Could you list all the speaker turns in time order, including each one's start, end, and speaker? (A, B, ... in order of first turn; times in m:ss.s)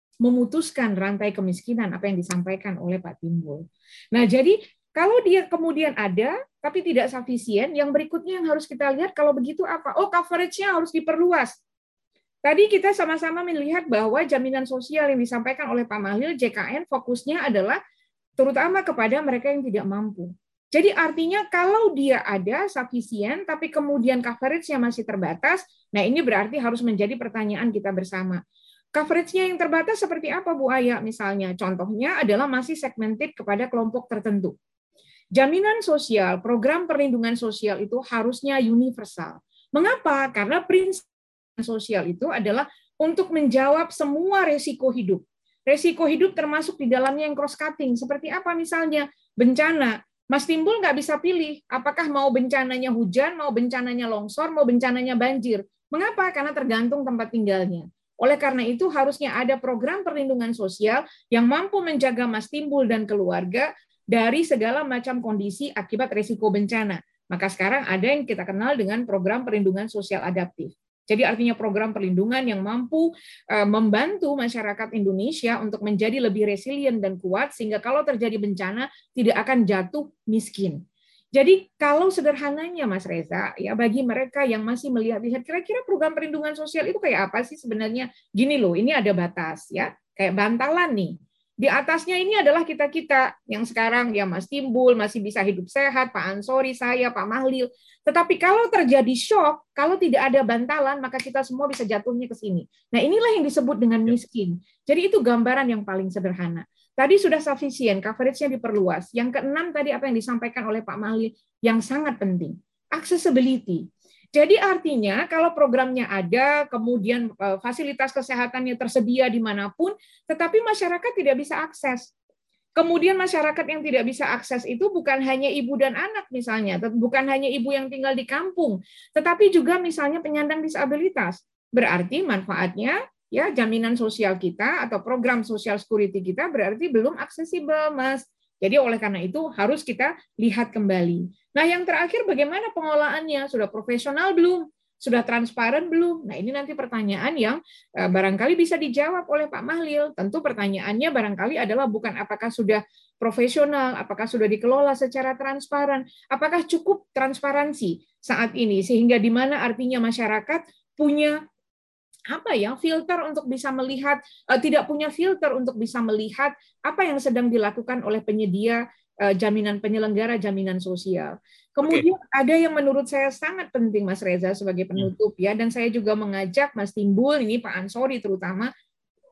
0:00.2-0:11.6 A
0:12.4-0:17.8 A
0:18.4-0:28.4 A
0:28.9-0:34.5 A
0:35.4-0:41.0 A
0:41.6-1:20.8 A
1:21.3-2:02.1 A
2:02.8-2:41.4 A
2:42.3-2:58.7 A